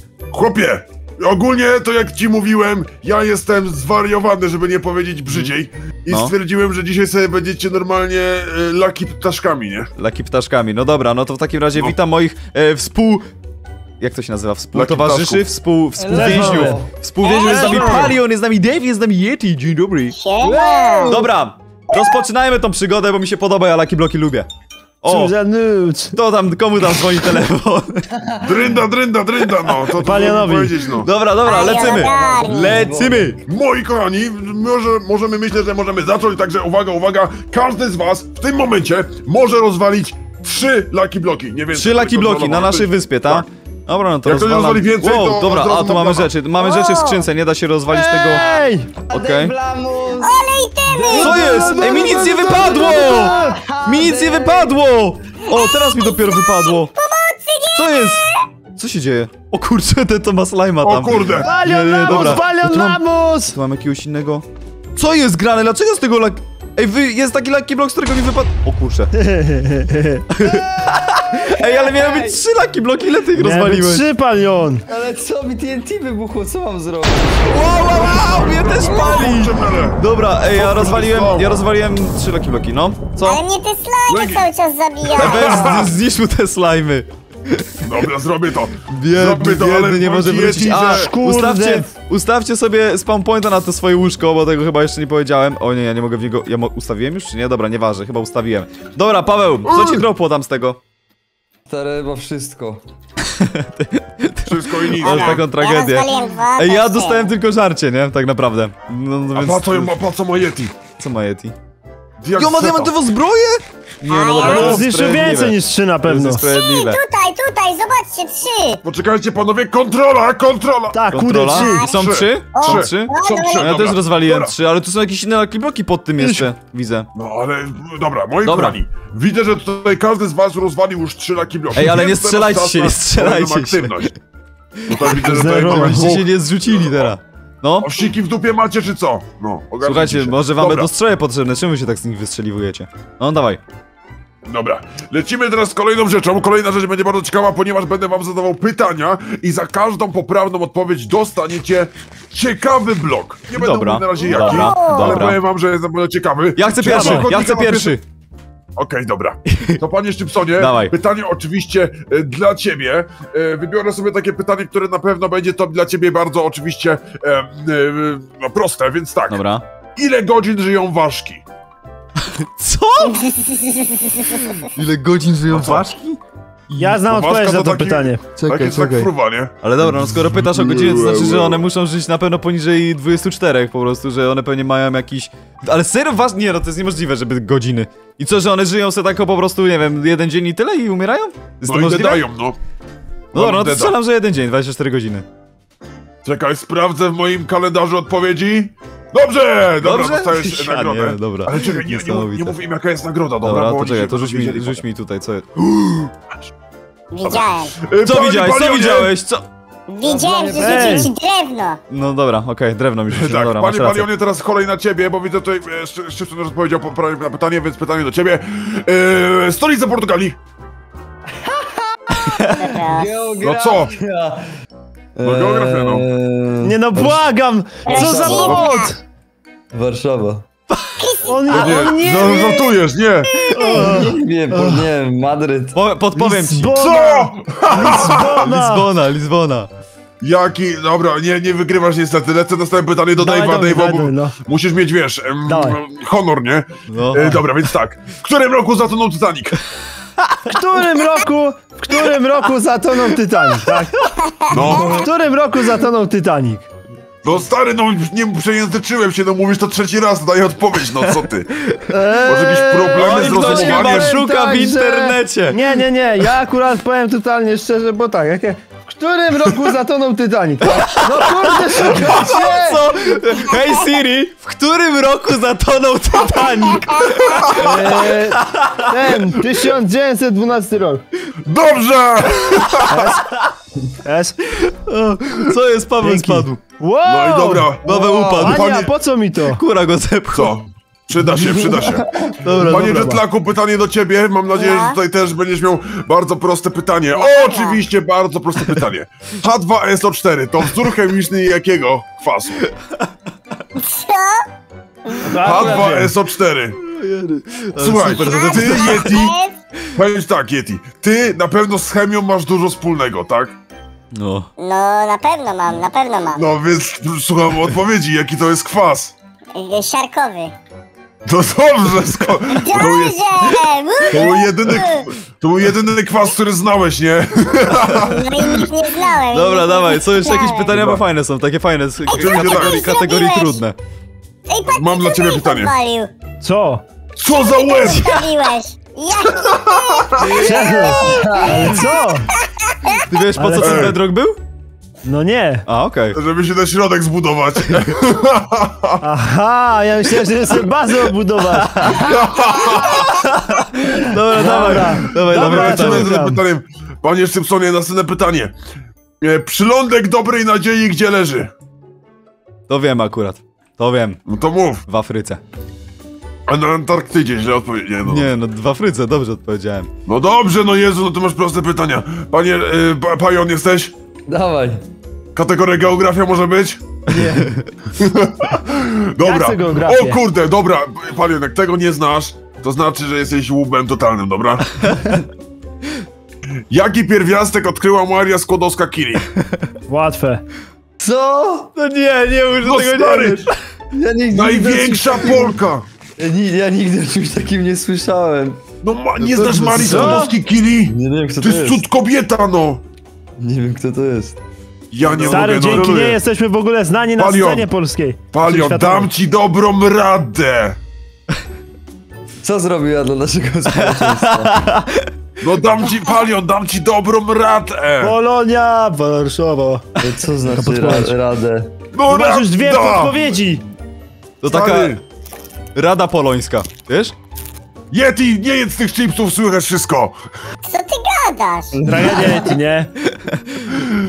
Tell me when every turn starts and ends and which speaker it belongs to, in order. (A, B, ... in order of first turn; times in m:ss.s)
0:00.3-0:09.9 A
0:10.0-0:13.2 B
0:14.0-0:20.2 B
0:14.7-0:15.4 A
0:16.0-0:16.9 C
0:16.1-0:16.8 D
0:17.2-0:18.1 E
0:17.4-0:18.1 D
0:20.1-0:21.2 E
0:20.4-0:21.3 D
0:21.1-0:24.5 B
0:25.0-0:25.3 B
0:25.0-0:26.1 D
0:26.1-0:28.1 B
0:28.4-0:31.1 A
0:30.0-0:30.7 D
0:31.0-0:33.4 B
0:31.4-0:32.8 E
0:31.5-0:33.4 C
0:33.5-0:43.4 A
0:41.7-0:48.4 B
0:44.2-0:46.3 A
0:46.6-0:47.2 E
0:47.9-0:48.9 D
0:49.0-0:54.8 C
0:49.1-0:49.5 B
0:50.1-0:51.4 E
0:51.1-0:53.3 B
0:51.6-0:53.6 D
0:52.0-0:52.2 E
0:53.8-0:56.9 B
0:55.5-0:58.4 E
0:57.7-1:04.4 B
1:00.8-1:01.5 A
1:01.3-1:03.6 D
1:02.1-1:02.4 A
1:05.0-1:09.1 B
1:09.2-1:10.2 D
1:10.3-1:14.0 B
1:11.3-1:12.4 C
1:13.3-1:14.8 D
1:14.9-1:17.4 C
1:17.5-1:23.4 B
1:18.2-1:20.0 A
1:18.7-1:19.3 E
1:20.5-1:21.6 A
1:23.2-1:25.6 E
1:24.1-1:24.4 A
1:25.1-1:25.9 A
1:25.2-1:27.8 B
1:27.8-1:31.1 A
1:28.9-1:40.8 B
1:30.9-1:31.9 D
1:39.6-1:40.0 A
1:41.7-1:42.8 C
1:43.4-1:49.9 B
1:44.4-1:45.4 A
1:45.0-1:47.3 E
1:49.3-1:50.7 A
1:51.0-1:51.5 B
1:52.2-1:52.9 A
1:52.4-1:57.0 B
1:54.1-1:54.7 E
1:54.4-1:56.4 D
1:54.4-1:54.8 A
1:56.4-1:58.8 E
1:58.8-2:01.0 A
2:00.9-2:01.8 D
2:01.1-2:07.1 B
2:01.5-2:02.0 E
2:01.7-2:04.5 A
2:02.5-2:03.7 E
2:06.2-2:06.5 D
2:07.1-2:14.1 A
2:08.4-2:08.8 B
2:11.7-2:14.1 B
2:14.8-2:17.9 B
2:14.9-2:17.1 A
2:15.1-2:16.2 D
2:17.8-2:20.9 A
2:19.8-2:23.6 B
2:24.4-2:38.0 A
2:33.5-2:35.4 B
2:34.2-2:35.3 E
2:36.6-2:38.0 B
2:36.8-2:37.3 D
2:38.8-2:49.4 A
2:39.5-2:39.8 B
2:40.6-2:40.9 B
2:49.3-2:49.6 B
2:50.0-2:51.4 A
2:52.4-2:53.2 B
2:53.0-2:54.3 E
2:54.3-2:56.2 B
2:55.5-2:55.9 A
2:56.8-2:58.3 D
2:56.8-2:59.5 A
2:58.4-2:59.1 B
2:59.6-3:12.2 B
3:00.2-3:01.6 A
3:11.7-3:12.6 A
3:13.3-3:14.0 A
3:13.3-3:15.2 B
3:16.2-3:24.8 A
3:19.8-3:22.6 B
3:23.4-3:26.1 B
3:27.1-3:27.7 E
3:27.2-3:29.1 A
3:28.0-3:29.4 B
3:29.9-3:31.8 E
3:30.0-3:31.1 C
3:30.6-3:31.1 D
3:31.9-3:34.1 B
3:33.1-3:40.4 A
3:41.4-3:41.9 C
3:42.1-3:42.6 B
3:42.5-3:43.3 E
3:42.9-3:44.5 C
3:43.4-3:43.9 A
3:45.2-3:47.2 C
3:45.2-3:46.1 A
3:46.6-3:49.0 D
3:47.8-3:48.9 E
3:47.9-3:48.7 C
3:49.7-3:50.4 C
3:51.0-3:52.0 E
3:51.3-3:52.7 D
3:51.5-3:53.3 A
3:53.4-3:54.8 B
3:53.5-3:54.1 D
3:53.6-3:55.8 C
3:55.7-3:56.7 B
3:56.4-3:58.9 D
3:56.8-3:58.4 A
3:58.3-3:59.7 B
4:00.2-4:09.5 A
4:03.2-4:04.3 D
4:05.5-4:05.8 D
4:06.9-4:07.4 B
4:10.4-4:16.7 D
4:14.5-4:15.0 A
4:14.5-4:15.0 E
4:17.2-4:21.5 A
4:21.9-4:32.8 D
4:22.2-4:24.2 A
4:22.9-4:25.6 B
4:30.6-4:38.9 B
4:36.2-4:36.9 D
4:37.5-4:41.0 D
4:41.4-4:43.1 A
4:42.9-4:43.2 D
4:44.0-4:44.4 D
4:44.6-4:46.6 B
4:46.0-4:47.7 D
4:47.0-4:48.9 A
4:47.8-4:48.7 B
4:48.1-4:48.4 C
4:48.3-4:49.6 D
4:49.5-4:50.5 B
4:50.3-4:52.1 A
4:51.7-4:52.3 C
4:52.4-4:53.2 B
4:52.4-4:53.2 D
4:52.6-5:02.6 A
4:54.5-4:55.0 E
4:57.2-4:57.8 E
5:02.6-5:03.0 B
5:03.8-5:04.4 E
5:05.0-5:05.8 E
5:05.2-5:06.1 D
5:05.4-5:06.8 A
5:06.9-5:09.2 B
5:07.8-5:09.3 A
5:08.2-5:09.5 E
5:10.0-5:13.6 A
5:14.1-5:14.5 B
5:14.6-5:16.4 E
5:16.3-5:19.1 A
5:19.5-5:20.5 E
5:21.2-5:28.6 A
5:22.5-5:25.1 E
5:28.0-5:30.7 E
5:29.3-5:33.7 B
5:30.7-5:31.0 A
5:32.1-5:33.6 E
5:32.1-5:32.9 A
5:34.5-5:36.1 E
5:34.7-5:35.7 A
5:36.4-5:36.8 D
5:37.2-5:38.1 A
5:37.3-5:42.0 E
5:40.2-5:41.6 C
5:40.2-5:42.3 D
5:43.1-5:44.4 B
5:43.3-5:43.9 D
5:43.6-5:44.0 A
5:45.0-5:45.6 D
5:45.7-5:46.2 B
5:46.1-5:49.0 A
5:49.0-5:51.9 D
5:51.6-5:52.1 B
5:51.9-5:53.1 A
5:52.9-5:56.2 B
5:54.3-5:56.4 D
5:54.6-5:58.5 A
5:59.2-6:01.5 A
6:02.7-6:04.2 B
6:04.2-6:04.8 A
6:04.8-6:05.4 B
6:06.5-6:08.3 A
6:08.0-6:09.9 B
6:10.0-6:13.9 A
6:14.3-6:14.8 C
6:15.3-6:16.8 A
6:17.1-6:17.5 D
6:17.1-6:17.6 B
6:18.0-6:24.6 A
6:19.2-6:20.2 D
6:26.7-6:29.2 A
6:29.9-6:30.4 D
6:31.0-6:31.7 C
6:31.8-6:33.5 B
6:32.6-6:33.5 A
6:33.9-6:35.6 C
6:34.3-6:35.8 A
6:36.2-6:38.6 C
6:38.8-6:42.8 A
6:39.2-6:40.3 B
6:39.7-6:40.4 D
6:40.8-6:41.8 C
6:43.4-6:44.4 C
6:44.9-6:46.2 A
6:45.0-6:45.5 C
6:45.3-6:49.1 D
6:47.2-6:47.7 A
6:48.3-6:50.8 A
6:52.4-6:54.7 C
6:53.9-6:55.1 B
6:55.4-6:58.1 A
6:58.0-6:59.9 D
7:00.0-7:01.7 C
7:00.5-7:01.1 D
7:01.9-7:03.3 A
7:02.1-7:03.6 D
7:04.4-7:05.0 B
7:04.4-7:05.0 A
7:05.7-7:07.1 B
7:07.9-7:10.2 A
7:10.7-7:11.7 E
7:11.7-7:12.6 C
7:11.8-7:12.9 D
7:13.1-7:13.8 B